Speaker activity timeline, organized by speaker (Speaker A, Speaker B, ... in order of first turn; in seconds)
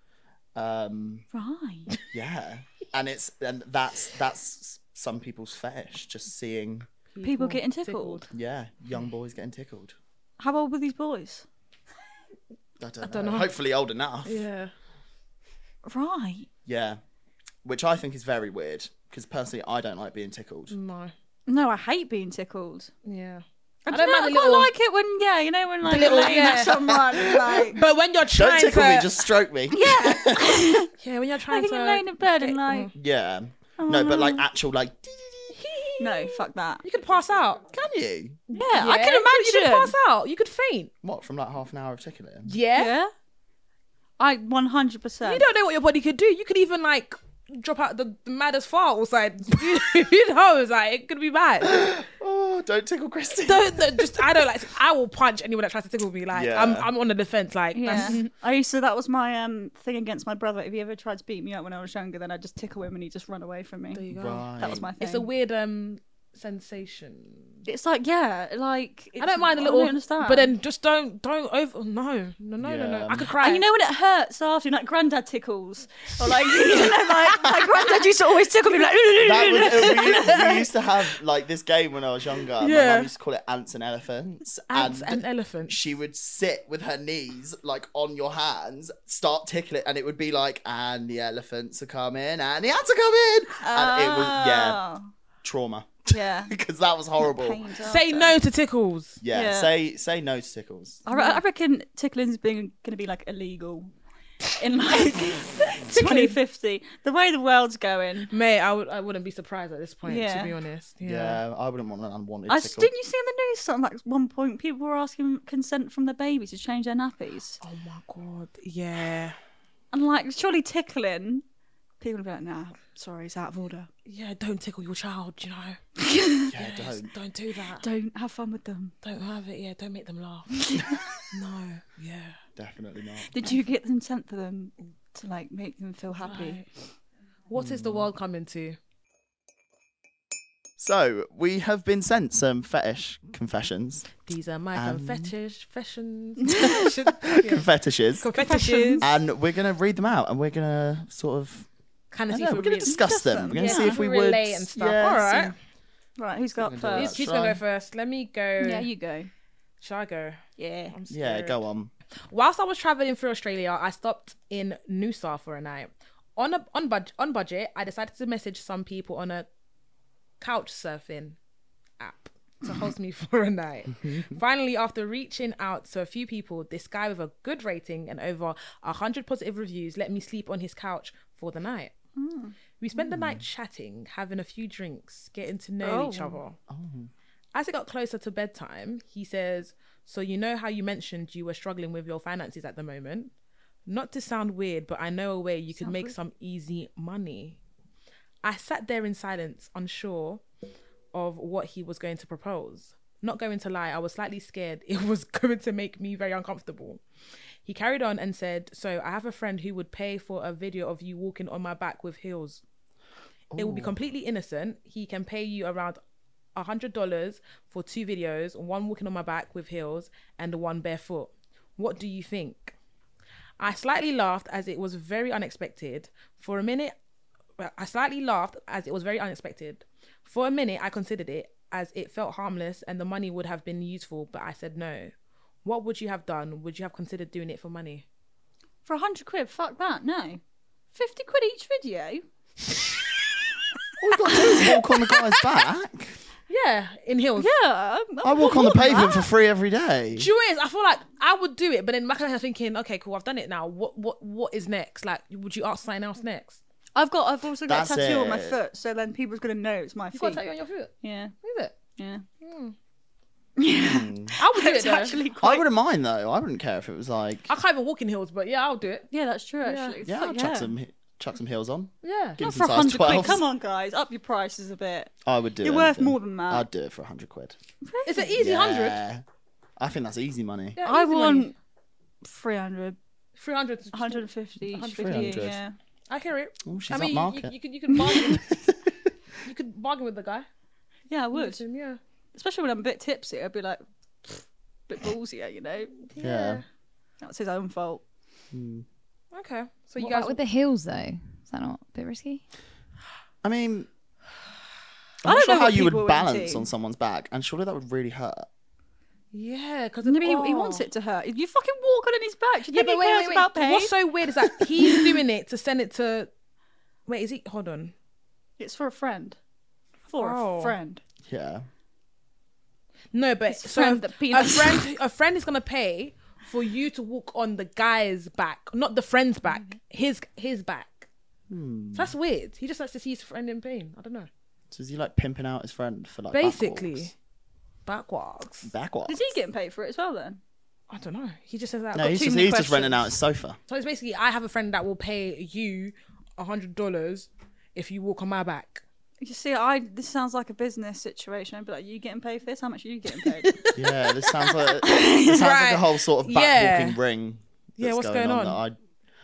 Speaker A: 0.6-1.2, 2.1-6.9, 8.3-9.9, 12.8-14.5, 16.7-17.0, 17.6-20.8, 26.9-27.7, 28.3-30.7, 33.0-35.6, 37.7-38.4, 41.0-42.5, 51.6-54.4, 56.3-56.9, 64.1-64.9, 72.6-73.3, 76.8-77.6, 79.2-94.8, 95.4-98.3, 99.2-101.0, 111.0-112.9, 126.5-127.1, 132.6-133.3, 137.5-138.1, 140.8-144.2, 144.7-145.3, 147.2-148.3, 149.0-151.7, 152.3-155.6, 156.6-157.6, 161.1-161.9, 174.0-174.4, 183.0-183.4, 186.7-187.1, 213.5-213.9, 244.0-246.2, 248.2-250.3, 257.7-258.6, 263.8-264.3, 265.4-267.5, 270.1-273.5, 275.2-277.6, 278.4-279.2, 279.8-280.8, 285.0-285.6, 286.6-289.1, 296.2-296.6, 298.5-298.9, 303.4-303.9, 305.2-308.5, 321.2-321.7, 331.5-332.1, 334.7-337.1, 338.6-339.4, 341.9-343.6, 353.8-358.8
Speaker B: 1.3-1.9, 7.2-8.3, 10.4-11.4, 15.8-16.5, 21.5-22.9, 23.9-27.8, 29.7-30.9, 31.5-32.9, 33.8-34.5, 36.0-36.8, 38.5-40.0, 42.8-43.1, 44.2-45.5, 57.8-64.1, 64.6-65.3, 67.7-70.5, 73.4-80.7, 93.6-95.1, 96.1-96.5, 97.2-98.2, 99.3-99.7, 101.1-103.9, 104.5-108.3, 110.1-110.6, 112.5-117.6, 119.9-121.4, 122.0-123.9, 126.0-126.5, 127.8-128.9, 133.3-136.7, 146.5-146.7, 148.3-149.1, 152.8-154.0, 156.2-157.2, 158.6-159.3, 160.6-160.9, 182.2-182.5, 185.8-186.4, 195.8-196.2, 238.8-240.4, 240.9-242.2, 247.4-249.3, 256.9-260.4, 261.0-261.3, 262.0-262.2, 263.6-265.7, 269.1-270.7, 272.4-276.7, 277.9-278.4, 280.8-281.5, 282.2-283.0, 283.9-285.8, 291.1-291.6, 292.3-296.0, 297.2-298.0, 305.2-306.7, 310.0-314.0, 314.5-315.1, 318.6-319.4, 320.1-321.0, 323.5-324.9, 339.1-340.4, 342.0-343.1, 349.2-353.6, 354.9-355.3
Speaker C: 7.1-8.3, 13.0-13.5, 14.2-14.7, 20.7-21.1, 23.1-24.7, 25.8-27.0, 27.7-29.2, 31.0-32.9, 35.5-37.6, 38.5-40.9, 42.5-42.9, 45.2-51.8, 53.4-58.3, 63.9-67.6, 69.2-73.7, 82.6-83.1, 84.7-85.8, 97.8-99.2, 101.1-101.4, 105.9-106.4, 108.3-111.4, 117.6-119.4, 124.1-125.8, 126.6-127.8, 129.0-130.7, 131.3-132.4, 136.2-136.7, 137.5-138.8, 144.3-147.7, 148.2-149.1, 152.1-155.6, 156.9-158.9, 159.8-161.6, 162.3-169.5, 170.4-171.4, 172.0-181.9, 182.8-186.6, 187.5-193.3, 193.9-197.6, 198.4-200.4, 201.1-207.0, 207.7-212.6, 213.6-216.0, 216.6-222.8, 223.6-226.9, 227.6-235.1, 235.6-238.1, 246.5-247.5, 250.2-256.6, 260.1-261.7, 262.4-262.8, 264.4-265.1, 267.5-269.1, 269.6-270.0, 272.0-272.4, 278.1-279.0, 280.8-281.5, 283.4-285.5, 286.1-288.4, 289.4-290.5, 291.3-292.0, 296.1-296.6, 299.3-300.4, 309.3-310.8, 312.7-316.3, 317.1-317.9, 320.2-320.8, 323.1-331.1, 331.9-334.3, 336.3-337.1, 337.9-338.7, 340.9-342.3, 343.7-348.8, 353.2-354.6, 355.3-357.0, 357.8-358.6
Speaker D: 300.0-302.4